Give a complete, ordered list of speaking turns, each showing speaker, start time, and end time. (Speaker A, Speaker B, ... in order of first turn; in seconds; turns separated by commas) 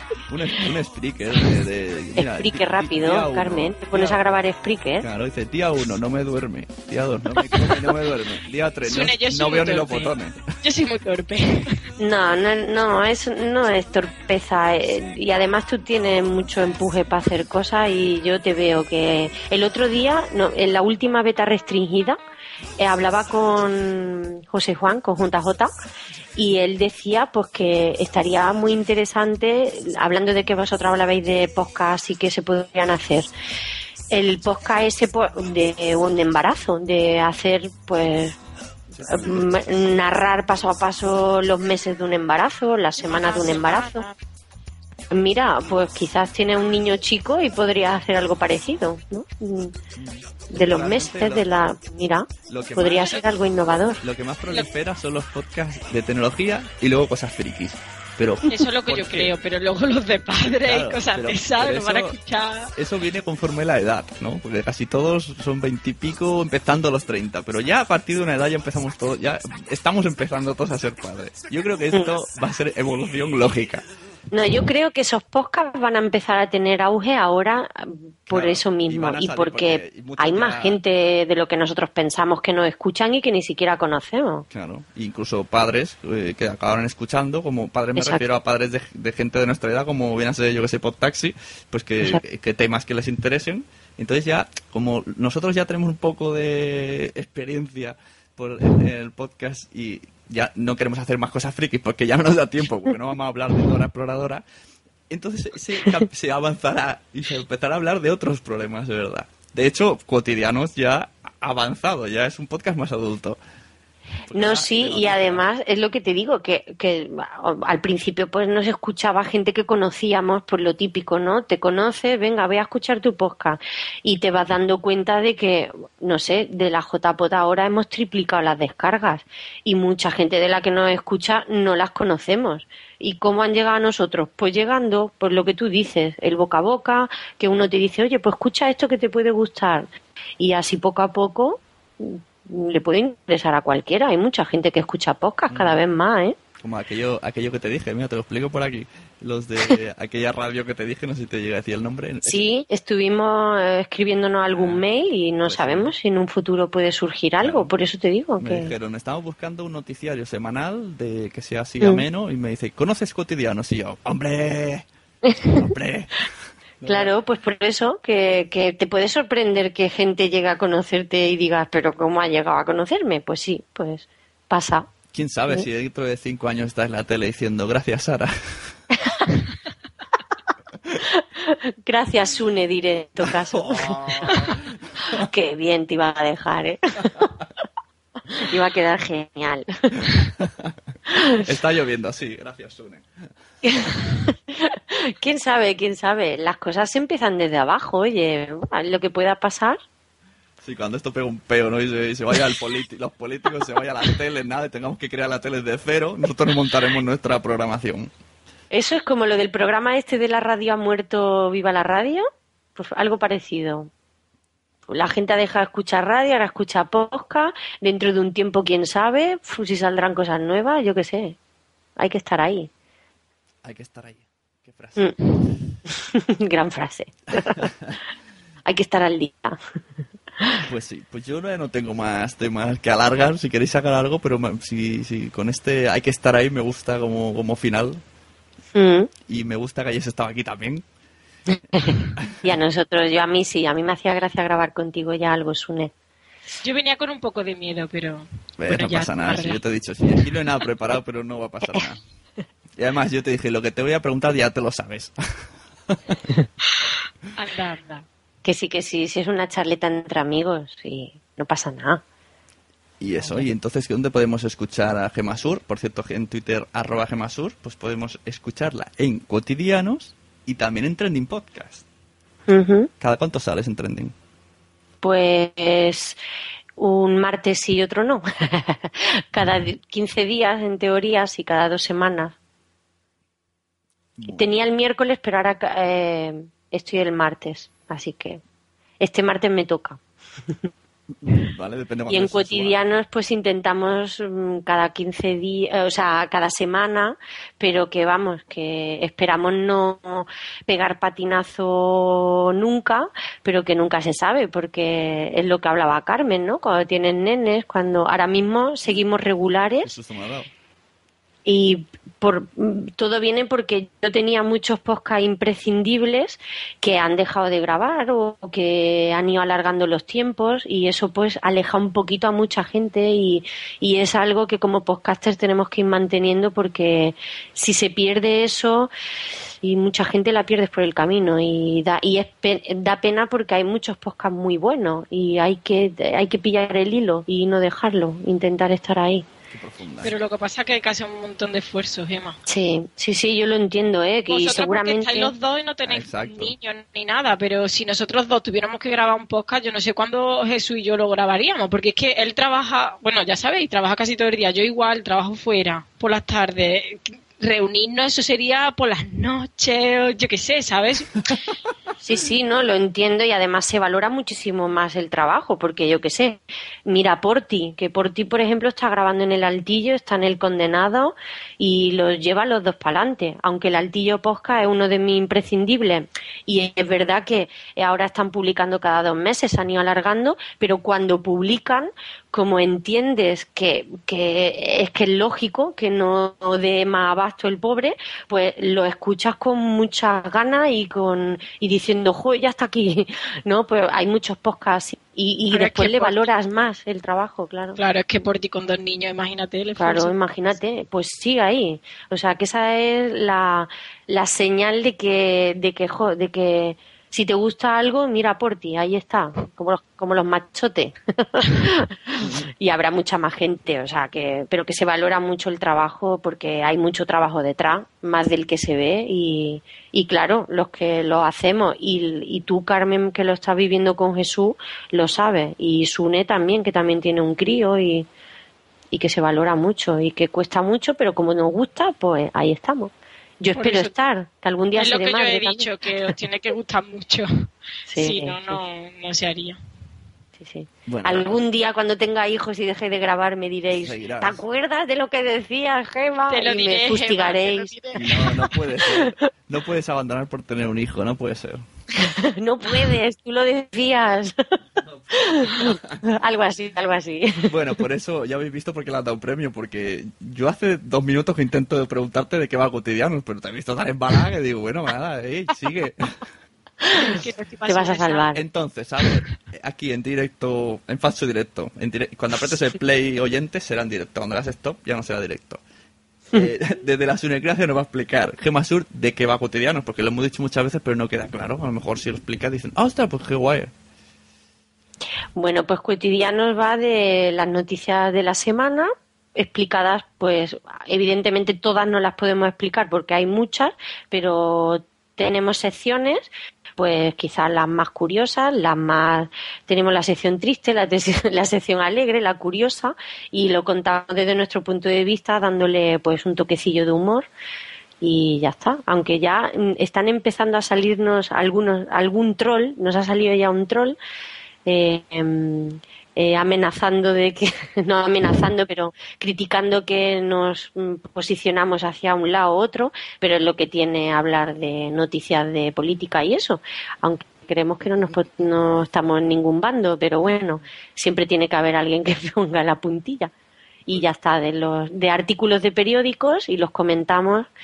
Speaker A: 0.3-4.2, Speaker B: 2.2-5.0, Speaker A: 5.0-10.4, Speaker C: 8.8-11.8, Speaker B: 12.0-22.2, Speaker B: 22.8-25.7, Speaker B: 26.4-33.3, Speaker B: 34.1-38.4, Speaker A: 38.9-39.6, Speaker B: 39.0-44.0, Speaker C: 43.0-44.1, Speaker B: 45.1-49.7, Speaker A: 49.9-51.5, Speaker B: 50.5-54.0, Speaker A: 52.5-53.2, Speaker A: 54.0-59.3, Speaker C: 58.5-62.7, Speaker A: 60.6-62.2, Speaker A: 62.7-73.8, Speaker B: 74.3-84.4, Speaker A: 78.3-80.8, Speaker A: 84.5-104.4, Speaker B: 88.0-88.2, Speaker A: 105.1-113.4, Speaker A: 114.3-115.4, Speaker B: 114.3-139.9, Speaker B: 140.4-146.3, Speaker A: 145.5-145.8, Speaker A: 146.6-152.4, Speaker B: 152.2-158.7, Speaker A: 154.5-154.8, Speaker A: 155.4-155.9, Speaker A: 157.4-157.7, Speaker A: 158.4-164.9, Speaker B: 165.3-165.6, Speaker A: 165.5-166.3, Speaker A: 166.8-167.1, Speaker B: 166.8-174.9, Speaker A: 175.1-178.7, Speaker B: 181.1-184.5, Speaker A: 183.2-185.2, Speaker B: 185.1-187.3, Speaker B: 188.3-189.7, Speaker A: 190.4-190.7, Speaker B: 191.1-191.4, Speaker A: 191.4-193.1, Speaker B: 193.6-199.8, Speaker A: 200.6-208.1, Speaker B: 208.7-212.2, Speaker B: 212.8-213.9, Speaker B: 214.9-221.4, Speaker B: 222.0-222.7, Speaker A: 223.6-225.1, Speaker B: 225.9-227.7, Speaker A: 227.3-227.9, Speaker B: 228.7-229.6, Speaker A: 230.7-238.0, Speaker B: 238.7-239.1, Speaker A: 239.3-240.8, Speaker B: 241.7-245.9, Speaker C: 246.6-249.6, Speaker A: 248.6-252.0, Speaker A: 252.8-255.2, Speaker C: 257.3-258.0, Speaker B: 258.4-262.0, Speaker A: 263.0-271.8, Speaker B: 263.2-263.5, Speaker B: 272.5-272.9, Speaker A: 273.0-274.1, Speaker B: 275.0-276.2, Speaker B: 276.8-282.3, Speaker A: 284.2-284.4, Speaker B: 284.3-288.4, Speaker B: 289.0-290.0, Speaker A: 291.2-292.8, Speaker B: 292.1-309.9, Speaker A: 309.8-310.5, Speaker B: 311.4-328.9, Speaker B: 329.6-339.2, Speaker A: 339.5-340.1, Speaker C: 340.0-342.4, Speaker B: 342.5-345.3, Speaker C: 344.3-361.4, Speaker A: 345.9-346.5, Speaker B: 362.0-397.8, Speaker C: 395.5-396.3, Speaker C: 397.8-400.1, Speaker B: 399.8-428.1, Speaker A: 412.2-412.4, Speaker B: 428.9-435.7, Speaker C: 433.6-433.9, Speaker C: 434.7-439.6, Speaker B: 437.9-438.6, Speaker B: 440.4-448.2, Speaker A: 440.9-441.4, Speaker A: 443.7-444.4, Speaker C: 446.3-448.3, Speaker A: 447.9-451.6, Speaker B: 452.0-454.4, Speaker A: 454.8-456.0, Speaker B: 455.2-457.5, Speaker A: 457.5-466.0, Speaker B: 466.8-467.1, Speaker C: 467.1-468.3, Speaker B: 467.7-468.4, Speaker A: 468.3-475.6, Speaker A: 476.3-483.7, Speaker B: 485.4-507.3, Speaker B: 508.0-514.0, Speaker B: 514.6-533.3, Speaker B: 533.9-537.5